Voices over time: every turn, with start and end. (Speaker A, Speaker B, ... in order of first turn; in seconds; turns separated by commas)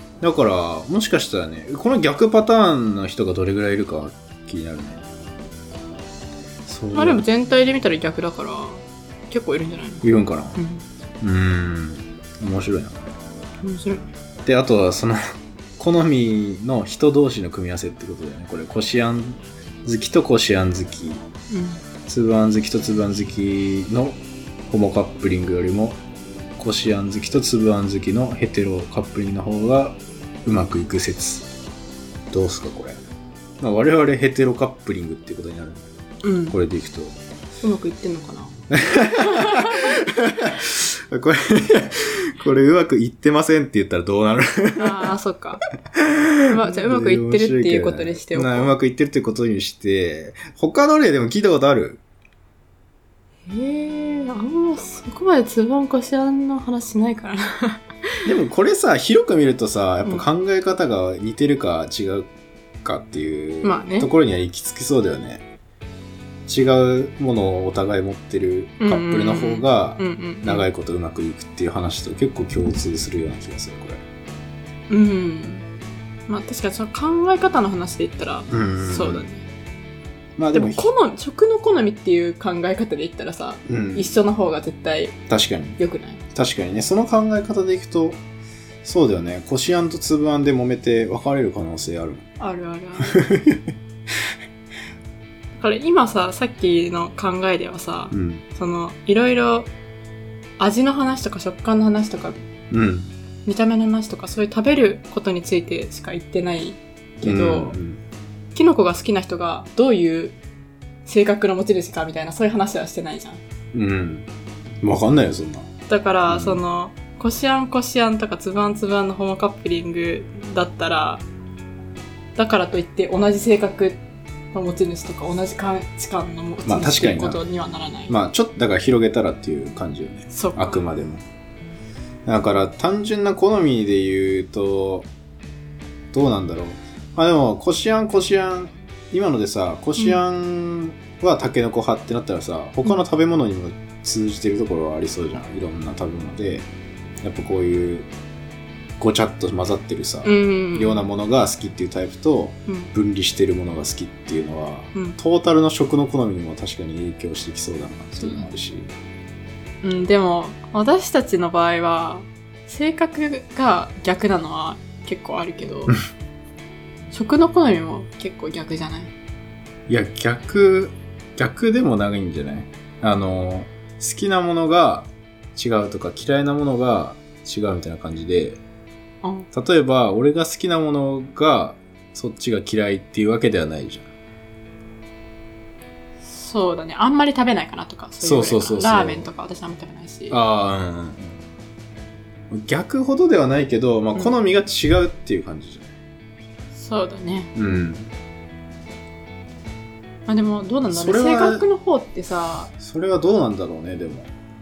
Speaker A: 0.2-5.0, Speaker A: 6.7-7.2, Speaker B: 6.9-10.8, Speaker A: 10.0-10.6, Speaker A: 11.2-13.0, Speaker B: 13.6-14.1, Speaker A: 14.4-15.2, Speaker A: 15.8-21.2, Speaker B: 21.5-21.8, Speaker A: 22.1-26.0, Speaker A: 26.6-31.5, Speaker A: 32.3-33.0, Speaker A: 33.6-35.9, Speaker B: 36.2-36.6, Speaker A: 36.5-37.1, Speaker B: 37.6-38.5, Speaker A: 38.7-45.1, Speaker B: 39.2-40.0, Speaker B: 44.8-45.6, Speaker A: 45.9-52.0, Speaker B: 46.5-48.7, Speaker B: 53.5-57.8, Speaker A: 58.2-62.3, Speaker A: 62.8-65.4, Speaker B: 63.6-64.1, Speaker A: 66.5-74.0, Speaker B: 68.8-70.7, Speaker B: 74.9-75.7, Speaker B: 76.3-79.5, Speaker A: 78.5-79.2, Speaker A: 80.4-80.9, Speaker B: 80.5-85.2, Speaker A: 83.7-84.1, Speaker A: 85.3-85.8, Speaker B: 85.8-86.2, Speaker A: 86.3-88.2, Speaker A: 88.8-92.2, Speaker B: 92.4-93.2, Speaker A: 93.0-93.7, Speaker B: 95.6-99.7, Speaker A: 98.1-98.4, Speaker B: 100.6-102.4, Speaker A: 102.7-103.1, Speaker B: 103.5-107.8, Speaker A: 107.2-108.0, Speaker B: 108.5-110.4, Speaker B: 111.0-113.4, Speaker A: 113.7-114.3, Speaker A: 114.8-115.7, Speaker B: 115.9-121.2, Speaker A: 116.3-116.6, Speaker B: 122.3-124.0, Speaker B: 124.5-128.1, Speaker A: 126.6-127.4, Speaker A: 128.1-131.2, Speaker B: 130.3-130.8, Speaker A: 132.2-135.1, Speaker A: 136.1-146.7, Speaker B: 140.0-140.2, Speaker A: 147.2-148.1, Speaker A: 149.0-158.9, Speaker B: 150.2-151.1, Speaker B: 158.2-158.5, Speaker B: 159.8-166.0, Speaker B: 167.1-169.1, Speaker A: 169.9-178.6, Speaker B: 179.2-179.5, Speaker A: 179.5-184.1, Speaker B: 186.2-190.4, Speaker A: 188.2-189.3, Speaker A: 190.3-191.3, Speaker A: 192.5-195.9, Speaker B: 196.7-197.5, Speaker A: 197.5-198.1, Speaker B: 200.3-202.7, Speaker A: 200.9-201.6, Speaker A: 202.8-204.3